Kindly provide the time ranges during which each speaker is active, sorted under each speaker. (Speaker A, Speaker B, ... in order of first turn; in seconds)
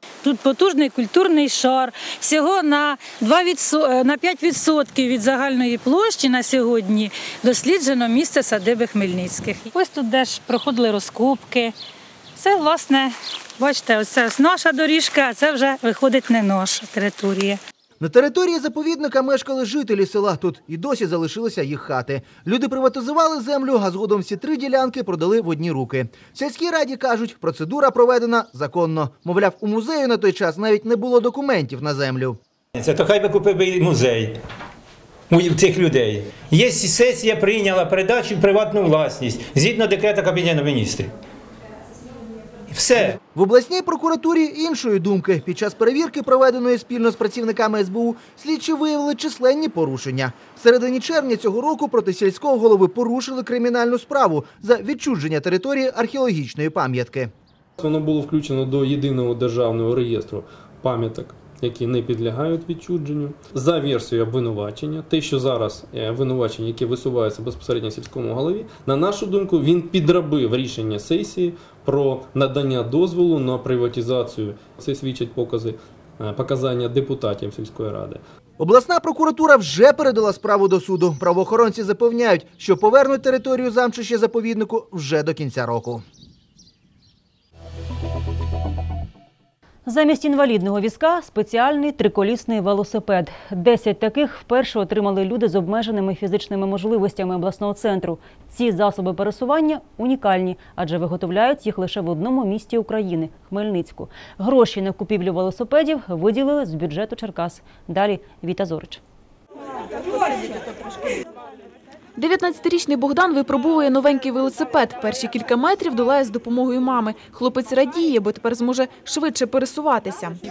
Speaker A: 0.2-11.7, 12.4-13.1, 13.6-17.5
Speaker B: 18.0-32.4, 43.3-57.3, 78.6-86.0
Speaker C: 32.8-34.4, 35.3-41.1, 42.7-43.1
Speaker D: 57.8-78.2
Speaker E: 89.8-109.0
Speaker F: 112.2-120.3